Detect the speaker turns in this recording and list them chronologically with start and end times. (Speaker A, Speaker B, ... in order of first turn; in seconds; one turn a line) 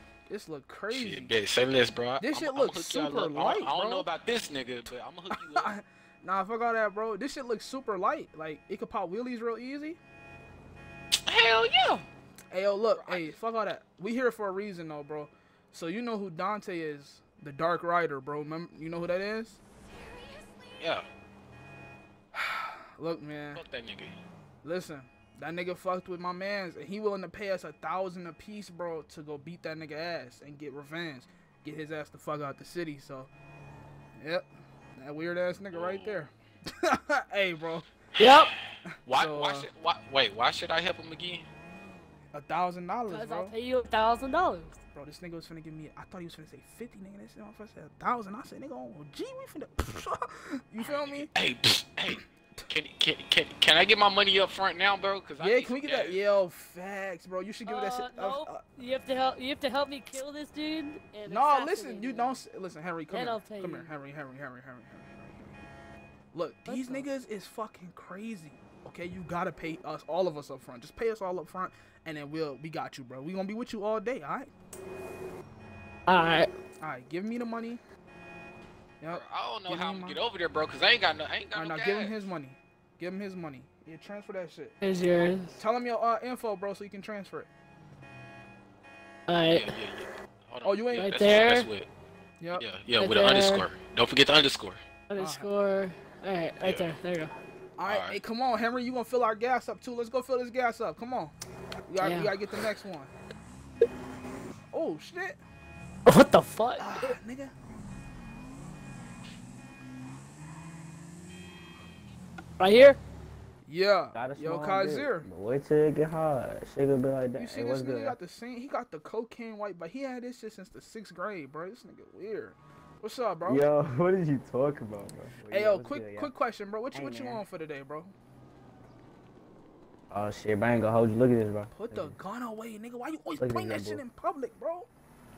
Speaker A: 0.3-1.3
Speaker B: 0.9-5.7
Speaker A: 2.2-4.1
Speaker A: 5.3-10.0
Speaker B: 11.2-12.1
Speaker A: 12.5-19.6
Speaker B: 12.9-13.4
Speaker B: 20.8-21.0
Speaker A: 22.3-23.6
Speaker B: 23.5-24.1
Speaker A: 24.6-33.3
Speaker A: 34.2-36.3
Speaker B: 35.7-36.2
Speaker A: 36.8-37.9
Speaker C: 38.2-38.5
Speaker B: 38.2-38.5
Speaker A: 38.9-39.7
Speaker B: 39.0-41.5
Speaker A: 42.3-43.5
Speaker C: 43.1-44.7
Speaker A: 44.9-51.3
Speaker B: 50.8-56.2
Speaker A: 52.1-52.6
Speaker A: 55.4-58.6
Speaker C: 57.6-62.4
Speaker A: 61.2-65.5
Speaker C: 63.1-63.9
Speaker A: 66.3-74.5
Speaker C: 66.6-67.1
Speaker C: 76.1-76.5
Speaker A: 76.8-77.8
Speaker A: 79.0-80.2
Speaker B: 79.1-82.3
Speaker A: 81.5-84.8
Speaker C: 84.8-85.6
Speaker A: 85.5-87.5
Speaker C: 89.3-89.7
Speaker B: 89.5-91.9
Speaker A: 90.6-91.3
Speaker C: 91.0-91.7
Speaker A: 92.4-92.7
Speaker B: 92.5-94.8
Speaker C: 93.0-93.7
Speaker C: 95.1-97.3
Speaker A: 95.2-95.5
Speaker B: 96.6-96.9
Speaker A: 97.8-101.3
Speaker B: 97.8-98.2
Speaker A: 101.9-103.1
Speaker C: 102.0-102.3
Speaker A: 104.7-105.4
Speaker C: 106.0-107.1
Speaker A: 106.8-107.5
Speaker C: 112.6-113.0
Speaker A: 113.6-115.3
Speaker D: 114.1-118.2
Speaker A: 117.4-123.7
Speaker D: 123.4-126.3
Speaker A: 125.5-128.1
Speaker D: 126.9-127.4
Speaker D: 130.1-132.2
Speaker A: 131.7-134.9
Speaker D: 133.4-134.0